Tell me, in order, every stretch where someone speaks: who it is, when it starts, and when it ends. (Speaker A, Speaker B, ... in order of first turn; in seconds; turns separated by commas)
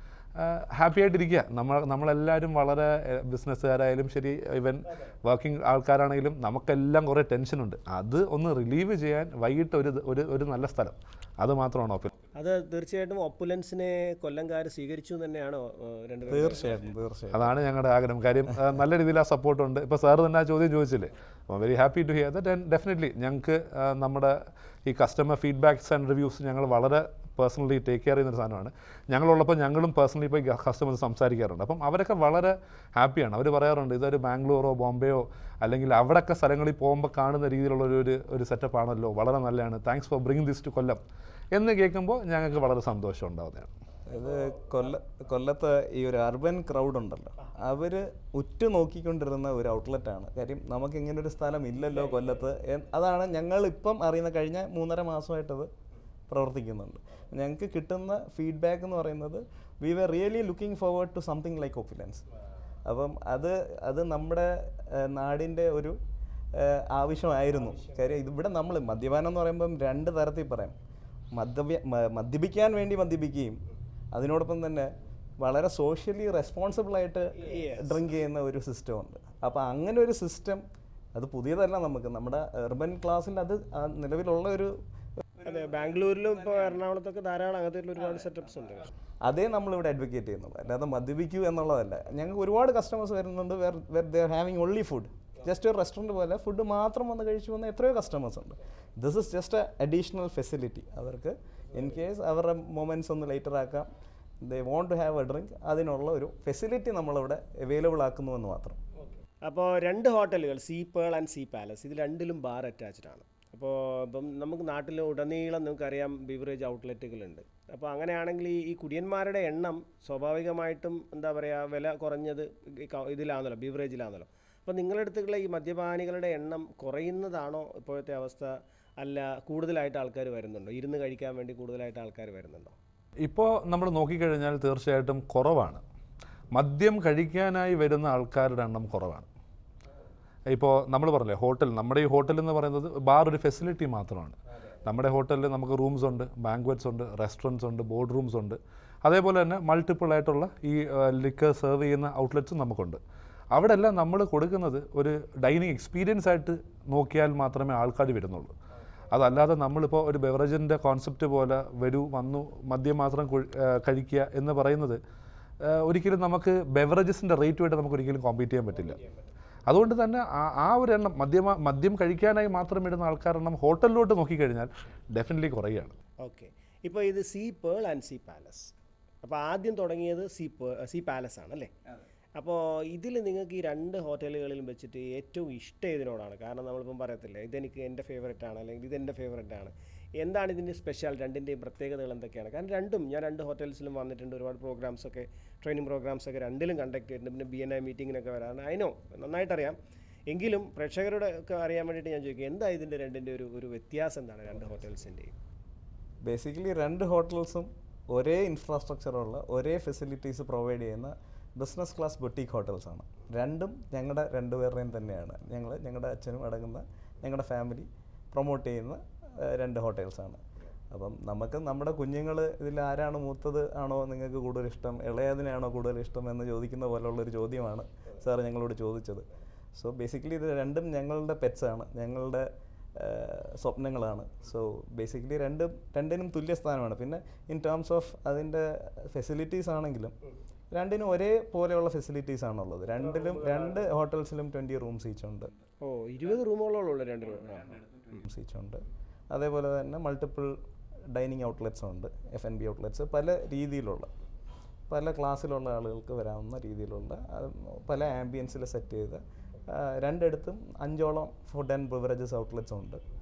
Speaker A: 0.4-12.1, Speaker B: 12.3-16.8, Speaker C: 16.3-17.6, Speaker A: 17.3-41.0, Speaker A: 41.5-43.7, Speaker C: 44.1-55.7, Speaker C: 56.3-62.2, Speaker C: 62.9-66.0, Speaker C: 66.5-70.8, Speaker C: 71.3-73.6, Speaker C: 74.1-74.9, Speaker C: 75.4-80.6, Speaker B: 77.5-77.9, Speaker C: 81.1-84.7, Speaker B: 85.4-88.9, Speaker C: 89.2-103.9, Speaker C: 104.4-108.8, Speaker B: 109.4-132.8, Speaker A: 133.2-135.8, Speaker A: 136.5-139.3, Speaker A: 140.5-153.0, Speaker A: 153.5-158.5, Speaker A: 159.1-165.0, Speaker A: 165.6-169.0, Speaker A: 169.7-175.9, Speaker B: 176.2-181.7, Speaker B: 182.4-199.8, Speaker B: 200.3-205.3, Speaker C: 206.2-220.4, Speaker C: 220.9-240.1, Speaker C: 240.7-245.5, Speaker B: 245.8-247.8, Speaker C: 248.2-250.5, Speaker C: 251.1-254.1, Speaker C: 254.9-263.0